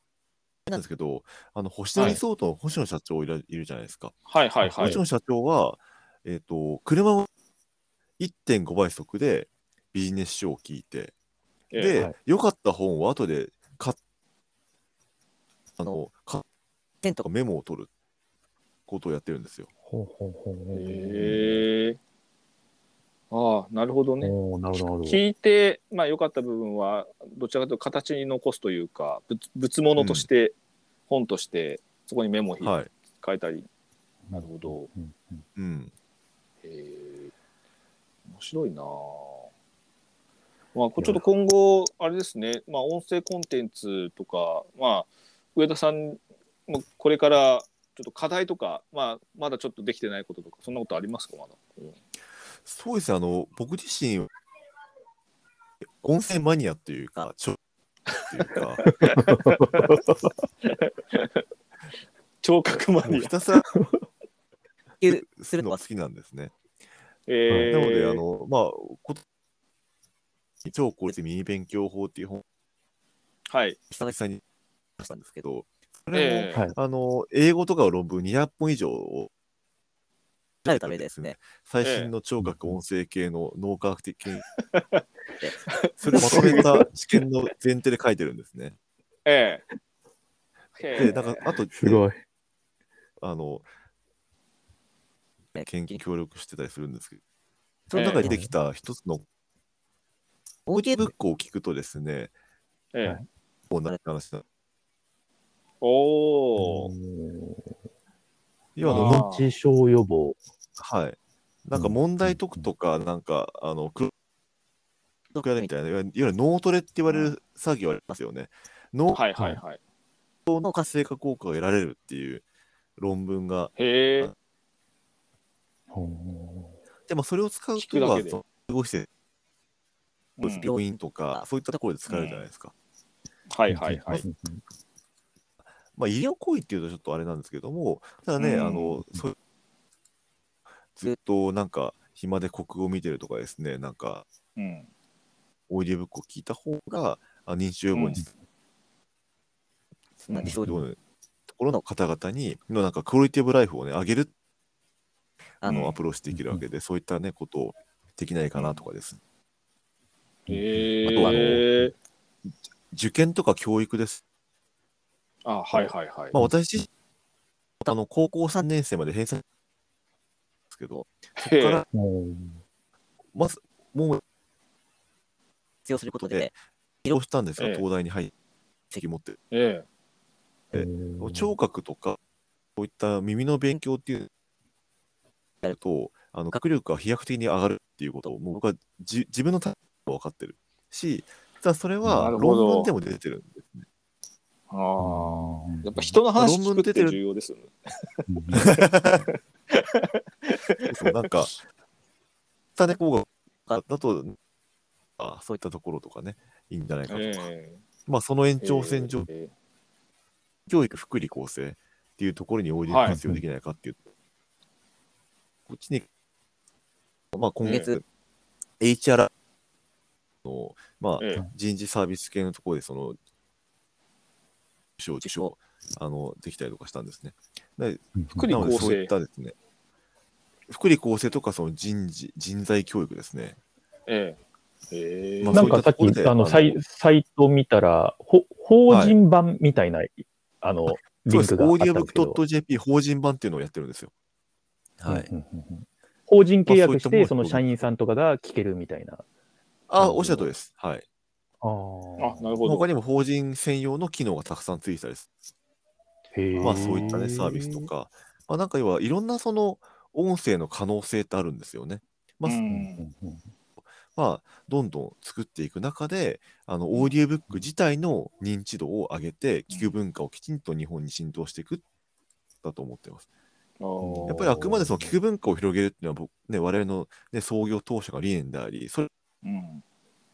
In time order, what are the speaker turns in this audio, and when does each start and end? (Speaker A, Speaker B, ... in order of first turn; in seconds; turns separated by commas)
Speaker A: 0.7-4.2, Speaker B: 4.3-5.0, Speaker C: 4.6-5.0, Speaker A: 4.8-7.3, Speaker A: 8.2-11.1, Speaker A: 11.7-14.0, Speaker A: 15.8-16.4, Speaker A: 17.2-17.9, Speaker A: 18.9-19.7, Speaker C: 19.9-21.6, Speaker B: 20.7-22.0, Speaker B: 23.3-30.6, Speaker C: 24.2-25.2, Speaker A: 30.0-30.3, Speaker B: 31.1-33.7, Speaker A: 32.6-32.9, Speaker C: 34.3-35.4, Speaker B: 34.3-34.9, Speaker A: 35.5-35.9, Speaker B: 36.6-37.3, Speaker B: 38.3-39.5, Speaker B: 40.7-52.0, Speaker C: 41.0-41.2, Speaker A: 52.6-54.3, Speaker A: 55.8-57.6, Speaker A: 58.1-58.9, Speaker B: 58.8-59.8, Speaker C: 59.1-60.3, Speaker B: 60.6-61.4, Speaker B: 62.4-63.3, Speaker A: 63.0-63.7, Speaker C: 63.7-64.0, Speaker D: 65.0-65.8, Speaker A: 65.0-66.5, Speaker B: 67.3-68.2, Speaker C: 67.5-67.8, Speaker A: 67.7-69.2, Speaker A: 70.6-72.4, Speaker B: 73.5-73.8, Speaker A: 73.9-74.4, Speaker A: 75.0-79.3, Speaker D: 75.0-75.4, Speaker B: 76.1-76.6, Speaker A: 80.6-84.4, Speaker D: 80.7-81.3, Speaker B: 81.8-82.1, Speaker C: 82.4-82.8, Speaker B: 84.7-85.0, Speaker A: 86.0-88.8, Speaker B: 86.0-86.6, Speaker C: 86.1-86.9, Speaker B: 89.2-89.6, Speaker B: 90.8-91.5, Speaker A: 91.0-92.0, Speaker C: 91.7-92.2, Speaker A: 93.2-93.7, Speaker D: 95.5-96.0, Speaker A: 95.5-97.2, Speaker D: 97.9-98.4, Speaker A: 97.9-99.2, Speaker B: 97.9-98.3, Speaker C: 98.2-98.5, Speaker D: 100.7-101.1, Speaker A: 100.7-102.3, Speaker B: 102.9-103.2, Speaker A: 103.7-104.4, Speaker B: 105.8-106.9, Speaker C: 106.6-107.7, Speaker A: 108.8-109.3, Speaker C: 108.8-110.4, Speaker B: 108.8-109.5, Speaker A: 110.8-114.1, Speaker C: 111.7-112.7, Speaker D: 115.3-115.7, Speaker A: 115.4-119.2, Speaker B: 117.1-117.3, Speaker B: 119.1-119.8, Speaker A: 120.5-122.4, Speaker D: 120.6-120.8, Speaker A: 123.0-124.3, Speaker B: 123.8-124.3, Speaker C: 125.9-126.8, Speaker A: 127.1-129.1, Speaker B: 127.8-128.4, Speaker B: 130.4-130.7, Speaker A: 130.4-132.7, Speaker D: 130.6-131.4, Speaker B: 132.1-132.4, Speaker B: 133.5-134.2, Speaker C: 133.7-134.6, Speaker A: 135.9-139.3, Speaker B: 138.4-139.0, Speaker A: 140.9-144.2, Speaker B: 144.6-144.9, Speaker A: 145.7-148.2, Speaker B: 147.9-148.2, Speaker A: 150.2-151.0, Speaker D: 150.3-150.7, Speaker C: 150.5-150.8, Speaker A: 151.5-154.3, Speaker D: 155.6-155.9, Speaker A: 155.6-159.2, Speaker B: 155.7-155.9, Speaker C: 156.3-156.6, Speaker B: 158.6-158.8, Speaker C: 160.5-161.0, Speaker B: 160.5-161.9, Speaker A: 161.0-161.7, Speaker D: 161.2-161.5, Speaker A: 162.9-164.2, Speaker B: 165.4-166.3, Speaker A: 165.7-166.9, Speaker A: 167.8-169.4, Speaker A: 170.7-171.8, Speaker B: 171.4-171.8, Speaker C: 171.9-172.6, Speaker A: 173.3-174.2, Speaker D: 175.8-176.5, Speaker A: 176.2-178.3, Speaker B: 177.6-177.8, Speaker A: 178.9-179.4, Speaker B: 179.5-179.8, Speaker C: 180.7-181.5, Speaker A: 180.7-182.2, Speaker A: 182.8-184.3, Speaker A: 185.7-193.8, Speaker C: 192.0-192.3, Speaker B: 192.1-192.9, Speaker B: 194.7-201.3, Speaker C: 195.0-196.2, Speaker A: 196.3-197.2, Speaker C: 198.3-198.7, Speaker A: 198.5-199.2, Speaker A: 200.9-201.6, Speaker A: 202.8-204.3, Speaker A: 205.2-207.5, Speaker B: 207.1-207.8, Speaker A: 208.1-209.3, Speaker B: 208.6-209.5, Speaker A: 210.7-214.0, Speaker B: 212.9-213.2, Speaker C: 213.0-213.4, Speaker A: 215.7-216.1, Speaker A: 217.3-218.0, Speaker B: 217.6-217.9, Speaker A: 218.8-219.3, Speaker A: 220.4-223.2, Speaker B: 221.2-221.4, Speaker A: 225.0-229.5, Speaker D: 225.2-225.5, Speaker C: 228.2-228.5, Speaker B: 228.3-229.1, Speaker A: 230.7-233.6, Speaker B: 234.1-234.4, Speaker B: 234.9-235.8, Speaker A: 235.4-236.8, Speaker C: 235.5-242.4, Speaker A: 238.9-239.2, Speaker A: 241.2-244.1, Speaker A: 245.0-245.3, Speaker C: 245.1-249.2, Speaker A: 246.7-247.7, Speaker A: 249.9-251.0, Speaker C: 250.0-250.5, Speaker C: 251.6-252.5, Speaker B: 252.2-252.9, Speaker A: 252.6-255.3, Speaker C: 256.3-257.9, Speaker B: 256.5-257.4, Speaker A: 256.6-262.6, Speaker B: 262.4-263.0, Speaker C: 262.7-263.5, Speaker A: 264.1-271.8, Speaker A: 272.6-273.2, Speaker B: 273.8-274.6, Speaker C: 274.0-275.1, Speaker A: 274.2-279.1, Speaker B: 279.4-279.8